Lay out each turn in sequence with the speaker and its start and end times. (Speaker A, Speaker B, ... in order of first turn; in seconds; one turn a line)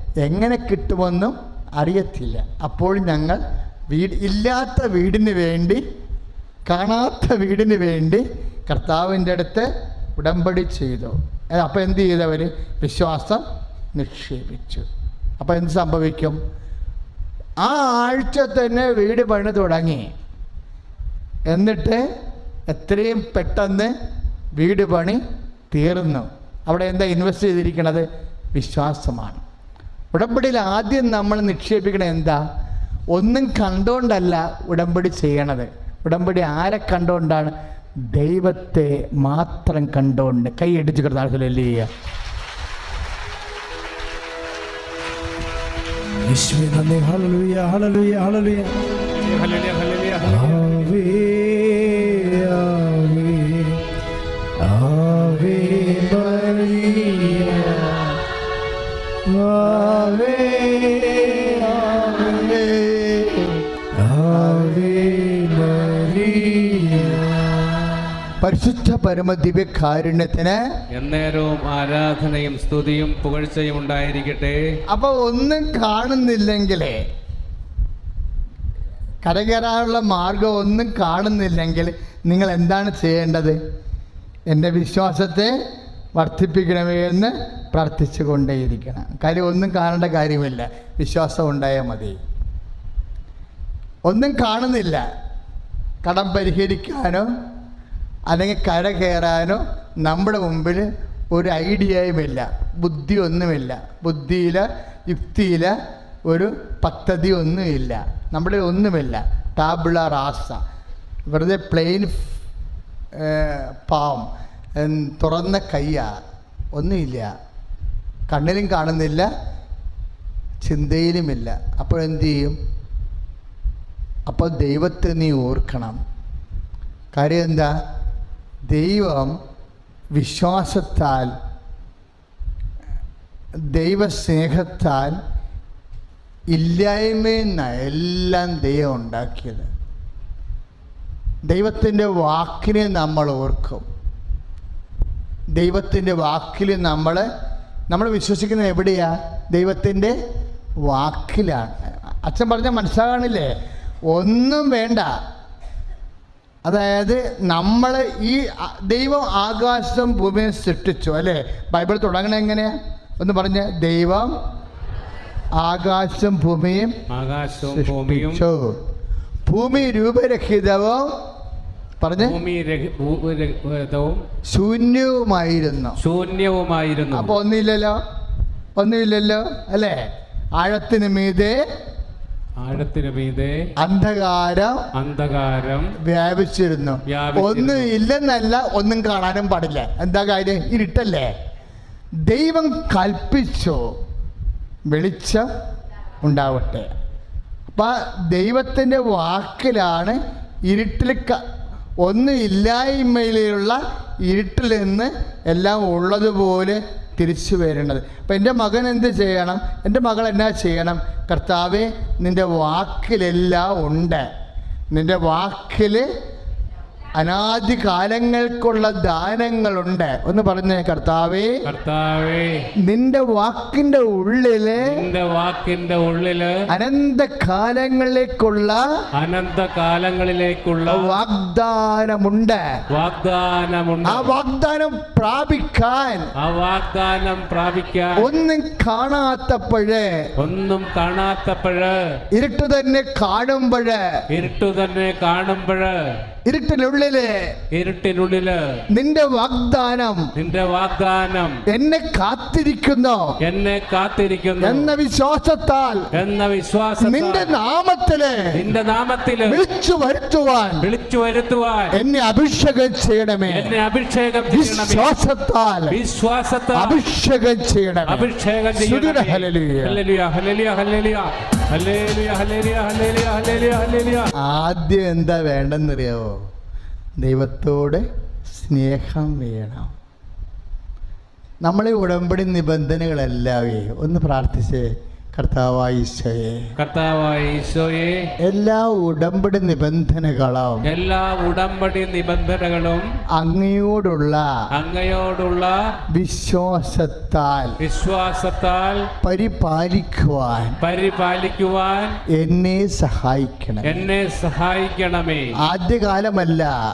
Speaker A: 0.2-5.8
Speaker A: 6.7-14.8
Speaker A: 15.4-16.4
Speaker A: 17.6-20.1
Speaker A: 21.5-22.1
Speaker A: 22.7-23.9
Speaker A: 24.6-29.4
Speaker A: 30.1-32.4
Speaker A: 33.1-37.5
Speaker A: 38.1-41.9
Speaker B: 46.2-48.8
Speaker C: 49.1-50.6
Speaker B: 50.2-53.8
Speaker B: 54.6-57.8
Speaker A: 56.0-57.9
Speaker B: 59.3-60.1
Speaker A: 59.6-63.6
Speaker B: 63.9-67.2
Speaker A: 64.3-67.2
Speaker A: 68.4-70.6
Speaker C: 70.9-74.8
Speaker A: 74.9-77.0
Speaker A: 79.2-83.6
Speaker A: 84.5-85.5
Speaker A: 86.2-92.2
Speaker A: 94.1-95.1
Speaker A: 96.0-97.3
Speaker A: 98.3-105.8
Speaker A: 106.3-110.6
Speaker A: 111.3-112.3
Speaker A: 113.2-116.1
Speaker A: 116.7-117.3
Speaker A: 118.3-119.3
Speaker A: 120.6-122.6
Speaker A: 124.3-126.0
Speaker A: 127.1-127.7
Speaker A: 128.7-129.4
Speaker A: 130.1-131.3
Speaker A: 133.6-135.2
Speaker A: 136.5-139.7
Speaker A: 141.4-143.8
Speaker A: 145.5-147.3
Speaker A: 147.9-150.2
Speaker A: 150.8-153.5
Speaker A: 154.1-155.1
Speaker A: 156.7-164.3
Speaker A: 165.6-167.0
Speaker C: 167.1-168.4
Speaker A: 167.7-168.8
Speaker A: 169.5-171.2
Speaker A: 172.0-172.4
Speaker C: 172.2-174.2
Speaker A: 174.5-176.0
Speaker C: 176.0-177.3
Speaker A: 177.1-178.0
Speaker A: 178.8-181.6
Speaker C: 182.6-183.7
Speaker A: 183.8-184.9
Speaker C: 184.9-185.9
Speaker A: 186.0-191.3
Speaker C: 187.1-187.9
Speaker A: 192.2-193.9
Speaker A: 194.9-195.5
Speaker A: 196.2-196.9
Speaker A: 197.7-201.4
Speaker A: 202.0-214.3
Speaker A: 214.9-216.1
Speaker A: 217.2-221.6
Speaker C: 221.7-222.7
Speaker A: 222.8-225.0
Speaker C: 224.8-226.6
Speaker A: 226.7-228.8
Speaker C: 229.2-231.2
Speaker A: 230.9-232.8
Speaker C: 232.9-234.4
Speaker A: 234.1-236.3
Speaker C: 236.4-238.2
Speaker A: 238.2-240.3
Speaker C: 240.4-242.1
Speaker A: 242.3-244.2
Speaker C: 244.3-245.9
Speaker A: 246.5-247.5
Speaker C: 247.7-248.8
Speaker A: 248.9-250.3
Speaker C: 250.4-251.6
Speaker A: 251.7-253.4
Speaker C: 253.4-254.9
Speaker A: 254.6-256.1
Speaker C: 256.1-257.6
Speaker A: 257.0-258.6
Speaker C: 258.5-259.6
Speaker A: 259.5-260.9
Speaker C: 260.8-262.0
Speaker A: 261.9-263.8
Speaker C: 263.5-265.1
Speaker A: 264.5-266.0
Speaker C: 265.9-267.0
Speaker A: 266.7-270.0
Speaker C: 268.1-274.3
Speaker A: 274.4-276.4
Speaker A: 277.2-279.9
Speaker A: 281.6-286.7
Speaker C: 286.8-288.3
Speaker A: 288.4-290.9
Speaker C: 290.9-293.1
Speaker A: 293.3-294.5
Speaker C: 294.7-295.8
Speaker A: 296.1-297.8
Speaker C: 297.8-299.1
Speaker A: 299.2-300.8
Speaker C: 300.8-302.2
Speaker A: 302.3-304.0
Speaker C: 303.9-305.6
Speaker A: 305.6-306.7